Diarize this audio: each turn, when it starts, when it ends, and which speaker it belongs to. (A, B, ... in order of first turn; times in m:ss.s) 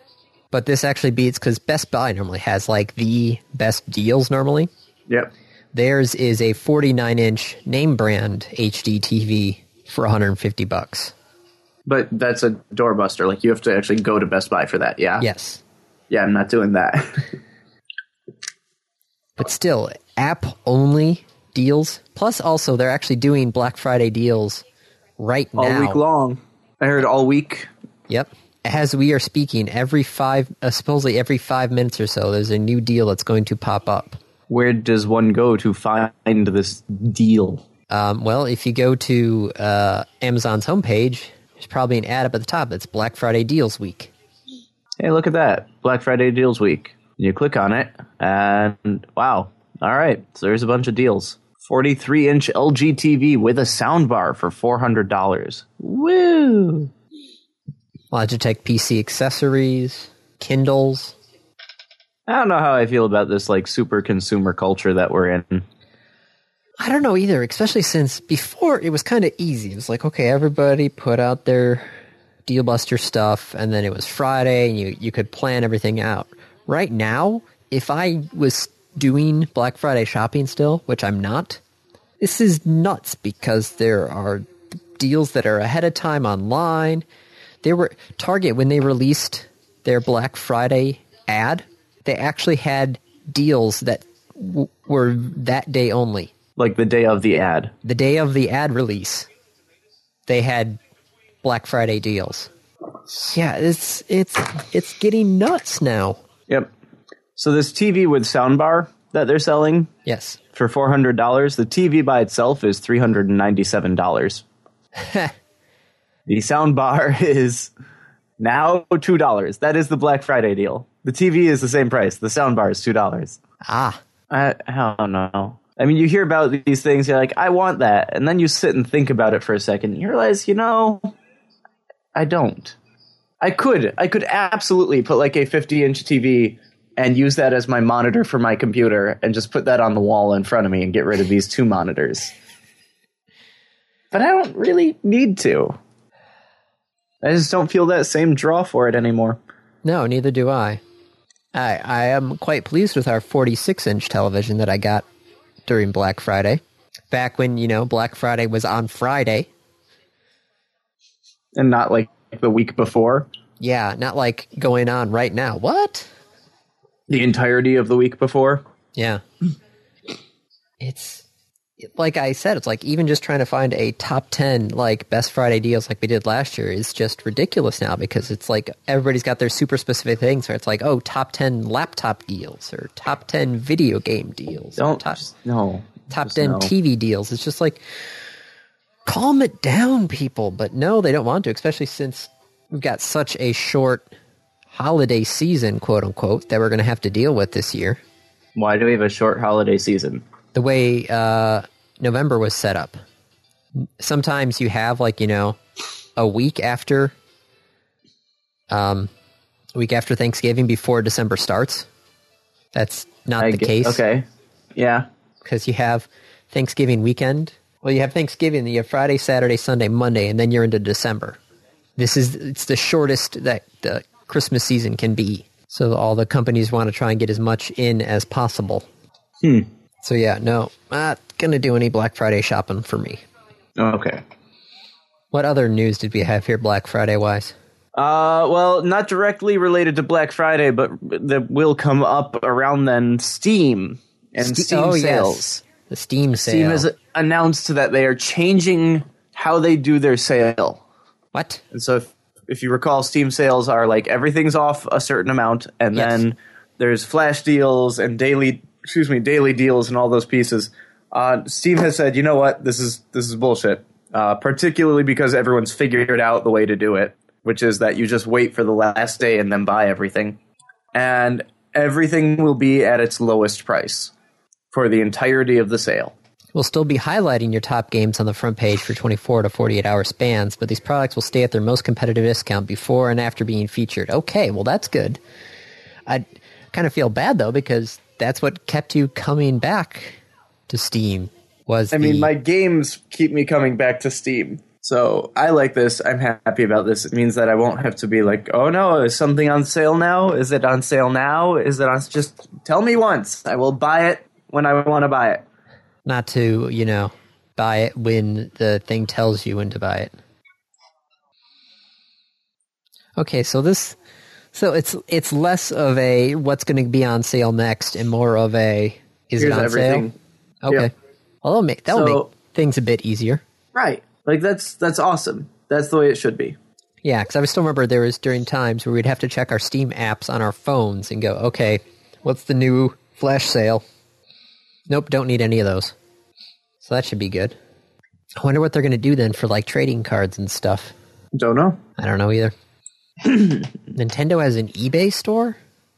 0:00.5-0:04.7 A
0:05.7-0:11.1 A
0:11.8-0:15.2 B
0:15.2-0:15.6 A
0:16.1-0:17.3 B
0:19.4-0:24.6 A
0:25.2-0:26.0 A
0:25.6-0:27.7 B
0:28.1-0:34.2 A
0:34.5-0:37.6 B
0:37.9-0:44.1 A
0:45.0-0:56.9 B
0:58.1-1:01.2 A
1:02.3-1:05.6 B
1:06.8-1:11.9 A
1:12.4-1:21.6 A
1:22.2-1:24.4 A
1:25.0-1:27.0 A
1:27.6-1:36.3 A
1:36.6-1:37.7 B
1:37.8-1:39.3 A
1:40.3-1:40.8 A
1:41.4-1:42.5 A
1:43.1-1:46.2 A
1:47.4-1:49.9 B
1:50.0-1:50.4 A
1:50.5-1:54.4 B
1:55.0-1:55.3 A
1:56.3-1:57.7 B
1:58.4-2:03.4 B
2:03.6-2:04.0 A
2:04.3-2:11.1 B
2:12.1-2:12.8 B
2:13.4-2:22.3 B
2:24.1-2:25.8 B
2:27.2-2:29.4 B
2:29.8-2:30.8 A
2:31.5-2:35.0 A
2:35.6-2:39.5 A
2:41.6-2:43.3 B
2:43.6-2:46.1 A
2:47.1-2:48.6 B
2:48.9-2:49.2 A
2:50.8-2:51.2 A
2:51.8-3:05.2 A
3:04.8-3:06.7 B
3:06.1-3:08.1 A
3:09.0-3:14.1 A
3:14.7-3:18.0 A
3:18.6-3:20.2 B
3:20.5-3:23.0 A
3:23.8-3:25.6 A
3:26.2-3:27.1 A
3:28.7-3:29.1 A
3:29.7-3:31.9 A
3:32.7-3:34.0 A
3:33.4-3:34.2 B
3:34.8-3:35.1 B
3:35.4-3:41.4 A
3:42.0-3:48.8 A
3:50.0-3:53.2 A
3:53.8-3:54.2 B
3:55.3-3:57.5 A
3:58.0-4:05.6 B
4:04.4-4:06.8 A
4:06.4-4:10.8 B
4:11.3-4:11.6 A
4:11.7-4:30.4 B
4:15.9-4:16.2 A
4:30.9-4:34.1 B
4:34.7-4:36.1 B
4:36.5-4:45.2 A
4:46.0-4:52.3 A
4:51.9-5:05.4 B
5:06.0-5:10.1 A
5:13.2-5:14.0 A
5:14.5-5:20.1 A
5:19.4-5:20.1 B
5:20.6-5:20.9 A
5:21.4-5:23.4 A
5:21.9-5:22.3 B
5:23.7-5:26.6 B
5:27.0-5:33.8 A
5:34.9-5:35.9 A
5:36.8-5:37.6 A
5:38.4-5:40.9 A
5:41.4-5:41.8 B
5:42.0-5:42.5 A
5:43.3-5:43.6 B
5:43.9-5:45.6 A